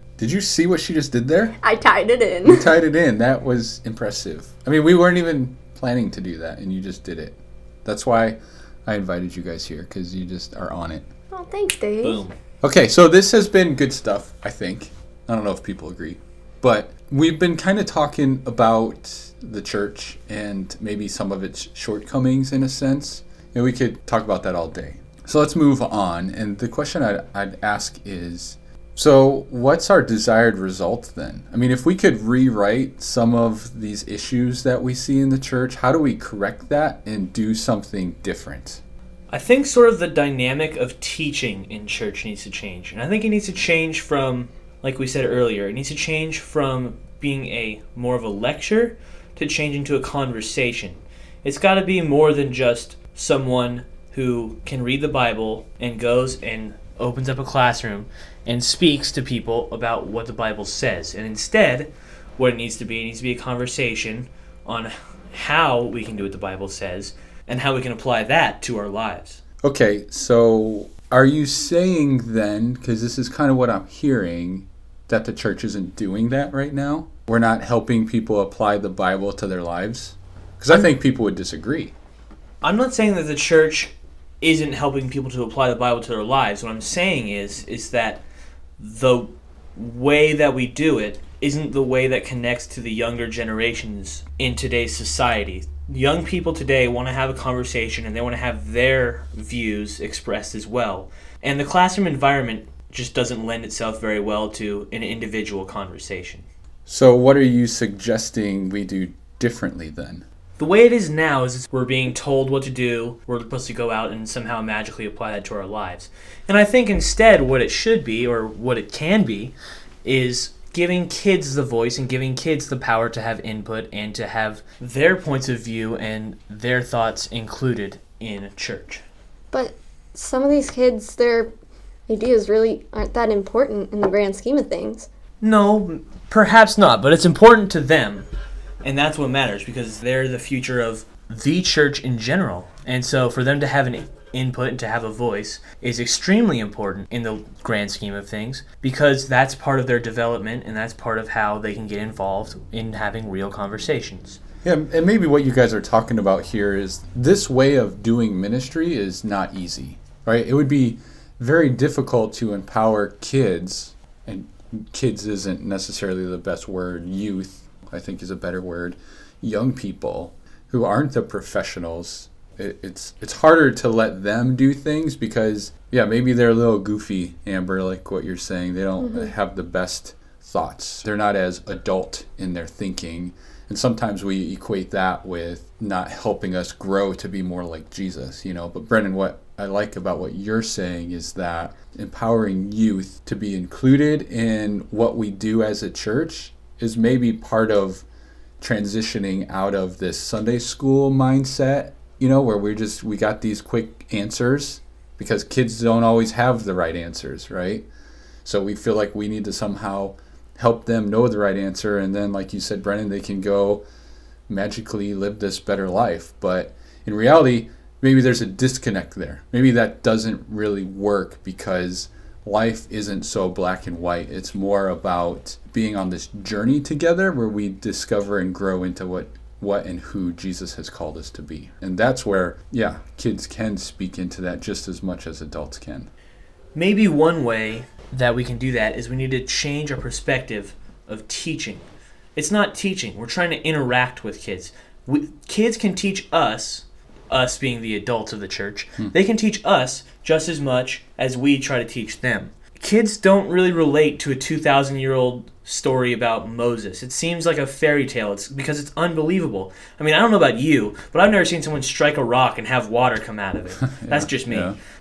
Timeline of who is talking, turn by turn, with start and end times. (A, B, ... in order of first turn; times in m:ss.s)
0:00.2-0:01.6 A
0:01.6-0:02.8 B
0:02.4-0:11.0 A
0:11.3-0:12.2 B
0:12.0-0:12.4 C
0:12.6-0:38.8 A
0:39.3-1:09.4 C
1:09.6-1:21.9 A
1:22.6-1:28.2 C
1:28.8-1:46.5 C
1:46.9-1:50.3 A
1:50.6-2:09.0 C
2:09.5-2:11.5 B
2:12.1-2:15.1 B
2:15.4-2:18.3 C
2:18.8-2:34.4 C
2:34.6-3:18.0 A
2:59.0-2:59.3 B
3:18.6-3:27.9 A
3:28.4-3:33.8 A
3:34.5-3:56.1 A
3:56.8-4:24.7 C
4:24.0-4:24.8 A